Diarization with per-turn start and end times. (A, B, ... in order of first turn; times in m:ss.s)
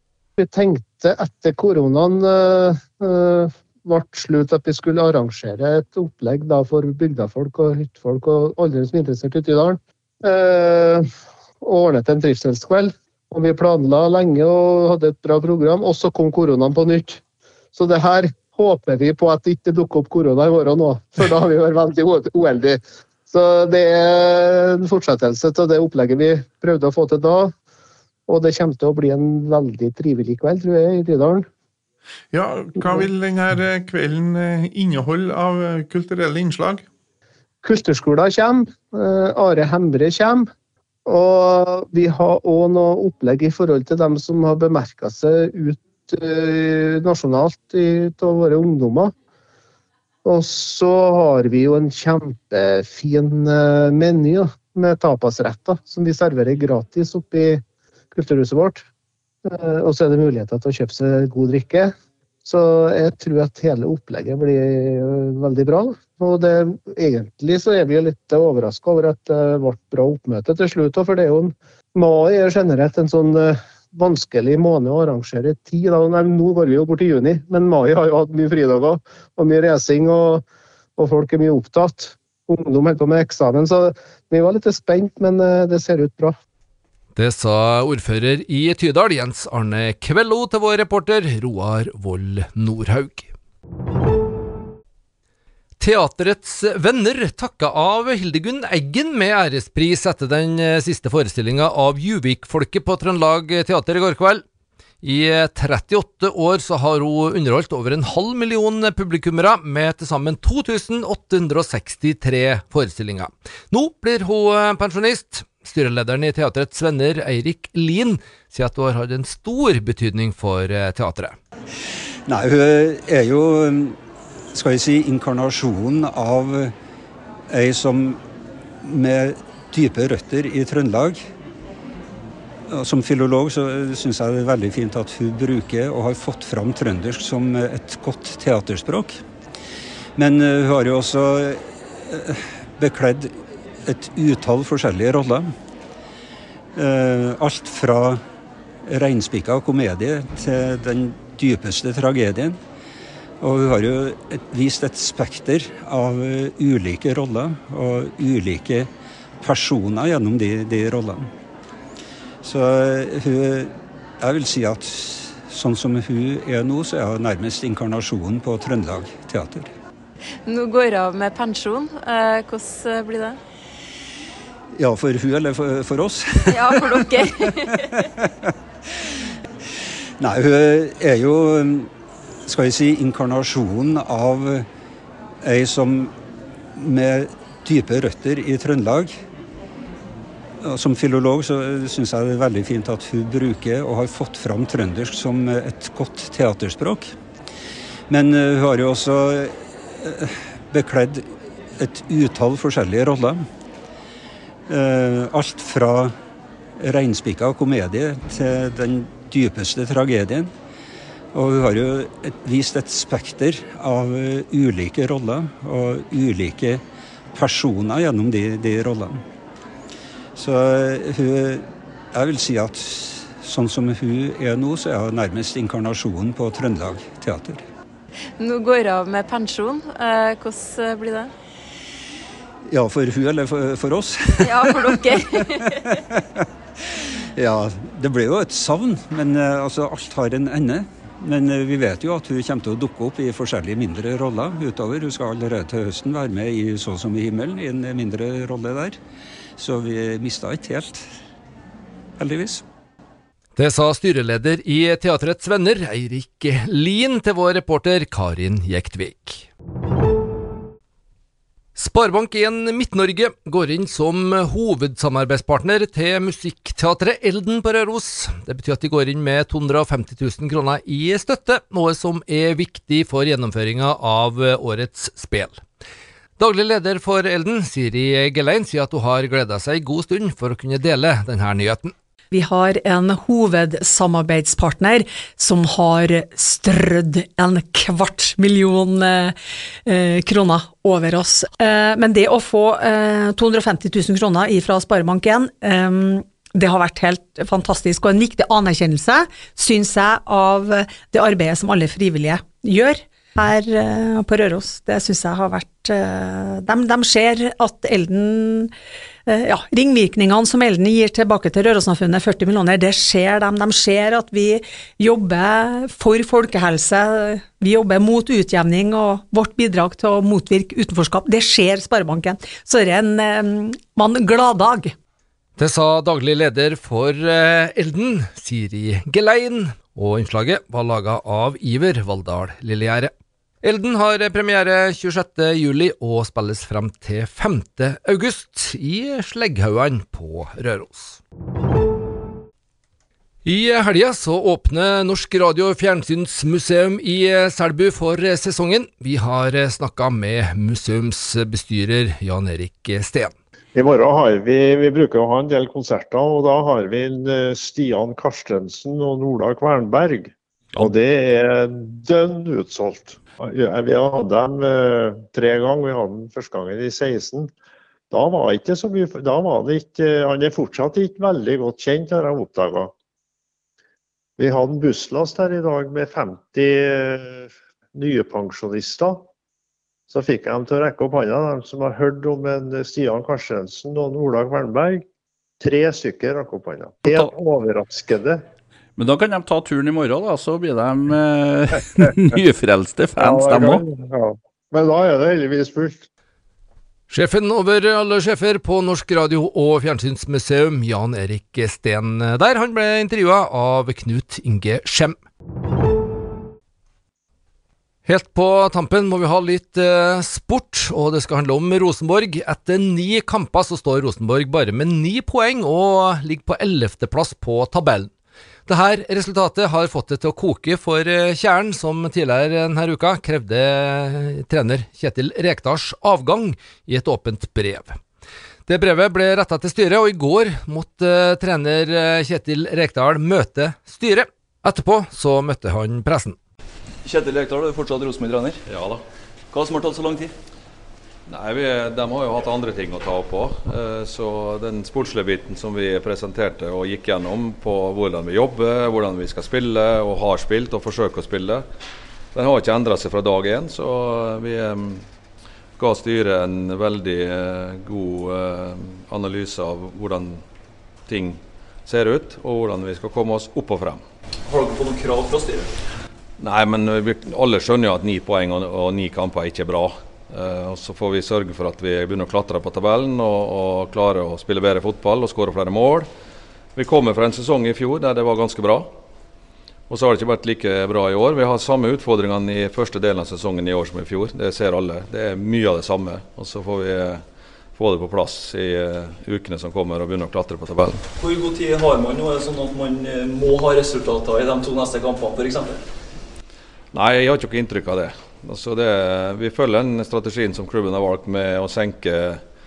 0:00.4-0:11.0 A
0:11.6-0:17.2 A
0:17.7-0:27.5 A
0:28.3-0:31.4 A
0:32.3-0:36.8 B
0:32.8-0:33.1 A
0:37.6-0:40.5 A
0:41.0-0:49.1 A
0:50.2-0:57.6 A
0:58.1-0:58.8 A
0:59.4-1:01.9 A
1:02.4-1:20.4 A
1:21.0-1:26.3 A
1:27.1-1:33.3 C
1:35.8-1:44.4 C
1:45.0-2:01.3 C
2:02.3-2:04.0 D
2:04.5-2:06.7 D
2:07.5-2:08.2 D
2:08.8-2:11.2 D
2:12.7-2:19.2 D
2:20.2-2:23.3 D
2:23.8-2:25.5 D
2:26.7-2:28.2 D
2:28.8-2:32.6 D
2:33.4-2:38.9 D
2:39.4-2:41.3 D
2:42.4-2:49.7 D
2:50.4-2:53.4 E
2:54.8-2:58.5 D
2:56.5-2:57.8 E
3:00.2-3:01.9 D
3:02.4-3:04.7 D
3:05.4-3:06.1 D
3:06.7-3:09.2 D
3:10.6-3:17.1 D
3:18.1-3:23.4 D
3:24.7-3:26.1 D
3:26.8-3:30.5 D
3:31.3-3:36.8 D
3:37.3-3:39.2 D
3:40.4-3:47.6 D
3:48.4-3:51.3 E
3:52.7-3:56.4 D
3:54.4-3:55.7 E
3:57.0-4:09.0 D
4:09.6-4:11.0 D
4:12.2-4:12.6 D
4:13.6-4:19.5 C
4:21.7-4:35.6 C
4:36.4-4:41.9 C
4:42.3-4:49.3 F
4:49.8-5:08.7 F
5:09.3-5:24.9 F
5:25.6-5:33.1 C
5:33.6-5:41.2 C
5:43.4-5:53.3 C
5:53.7-6:07.5 G
6:08.1-6:12.9 G
6:14.4-6:19.3 G
6:20.1-6:25.0 G
6:25.6-6:28.4 G
6:27.0-6:27.4 H
6:29.0-6:33.8 H
6:33.2-6:36.1 G
6:37.1-6:45.2 C
6:48.0-6:58.1 C
6:58.7-7:08.0 C
7:08.7-7:16.4 C
7:17.0-7:18.6 I
7:18.7-7:19.0 J
7:19.5-7:20.3 I
7:21.3-7:31.6 J
7:32.3-7:35.0 J
7:35.8-7:40.4 J
7:41.1-7:44.0 J
7:44.5-7:45.7 I
7:46.4-7:56.1 J
7:56.8-7:58.9 J
7:59.9-8:07.2 J
8:07.8-8:11.0 J
8:11.2-8:15.8 I
8:16.9-8:22.4 J